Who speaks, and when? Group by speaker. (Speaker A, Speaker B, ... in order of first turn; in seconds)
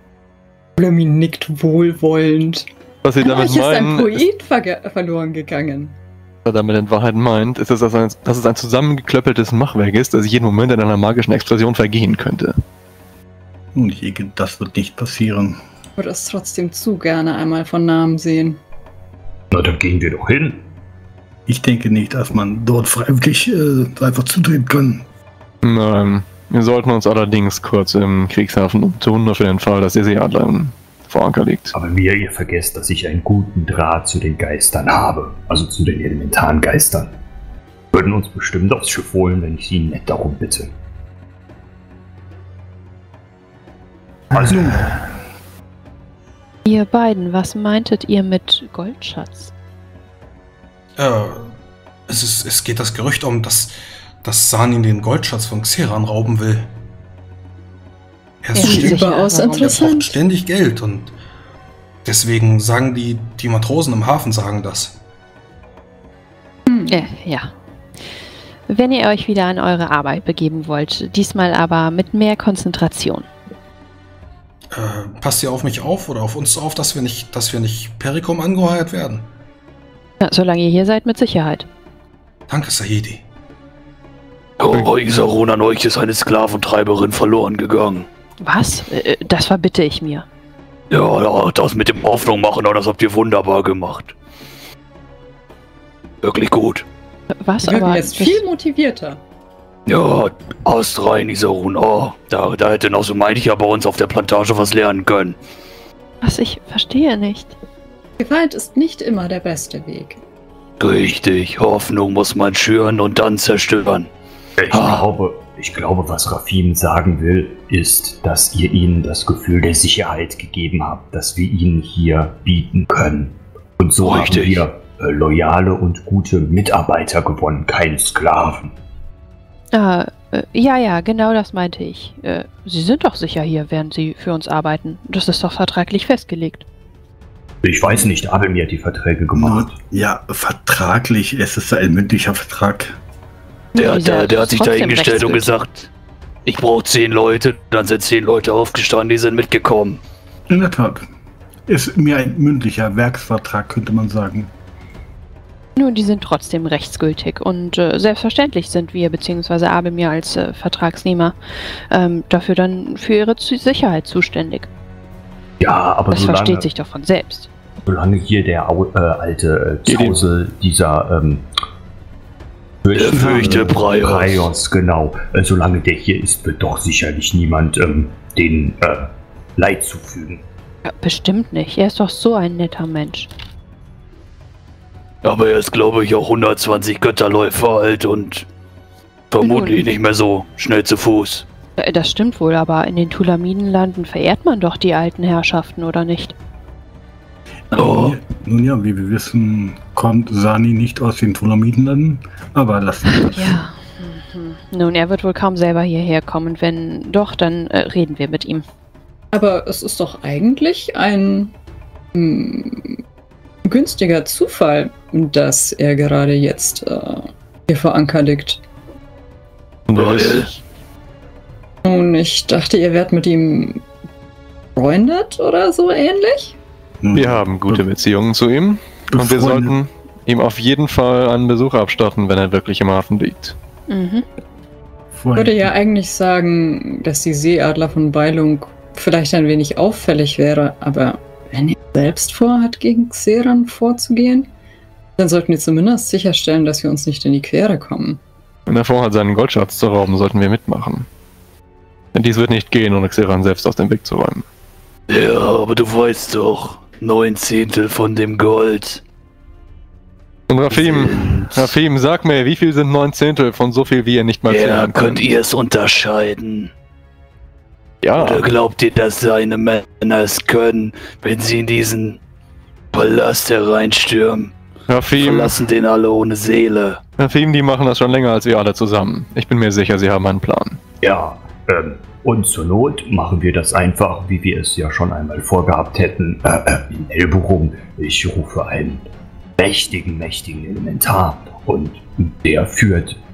Speaker A: 0.8-2.7, 3.2-6.0, 16.0-18.6, 58.6-60.1, 66.7-67.1, 97.6-99.2, 108.2-110.2, 209.3-211.5, 212.2-213.0, 213.7-218.6, 221.8-223.8, 224.8-226.6, 235.4-244.5, 245.2-248.2
Speaker B: 3.0-4.2, 6.5-12.6, 25.6-31.8, 169.9-170.2, 219.9-220.6, 227.2-233.6, 248.7-251.1, 252.1-254.4, 260.5-265.2, 268.0-268.5, 274.9-275.6, 277.2-280.8
Speaker C: 13.8-15.6, 21.5-25.1, 44.3-45.0, 139.4-143.0, 150.5-151.1, 151.7-154.5, 173.1-173.9, 197.7-203.6, 227.0-227.9, 229.1-229.8, 235.1-235.7
Speaker D: 19.5-20.7, 31.7-37.1, 37.9-40.7, 44.3-45.0, 114.6-128.8, 137.6-139.8, 165.6-166.7, 167.8-171.5, 172.8-180.5, 281.0-289.1, 289.6-293.2
Speaker E: 46.6-49.5, 58.6-59.8, 66.9-67.5, 68.7-73.3, 80.2-81.7, 88.4-90.3, 97.4-98.4, 106.2-107.6, 129.7-136.7, 143.8-145.5, 155.8-161.4, 161.9-164.7, 166.1-167.5, 180.9-183.3, 189.4-189.9, 191.8-196.3, 203.1-208.7, 233.9-234.2
Speaker F: 51.0-51.5, 52.1-56.7, 58.4-61.1, 62.0-65.0, 74.7-79.3, 82.5-83.2
Speaker G: 84.6-88.1, 90.9-94.1, 96.2-96.9, 99.9-105.4, 110.8-114.1, 114.7-115.0, 124.0-124.7, 143.8-145.9, 146.5-150.0, 172.9-174.5, 185.2-188.5, 189.3-191.4, 197.7-198.2, 219.9-220.5, 255.1-259.0, 260.7-261.7, 264.5-266.7, 268.2-272.2, 272.9-274.6, 275.1-277.0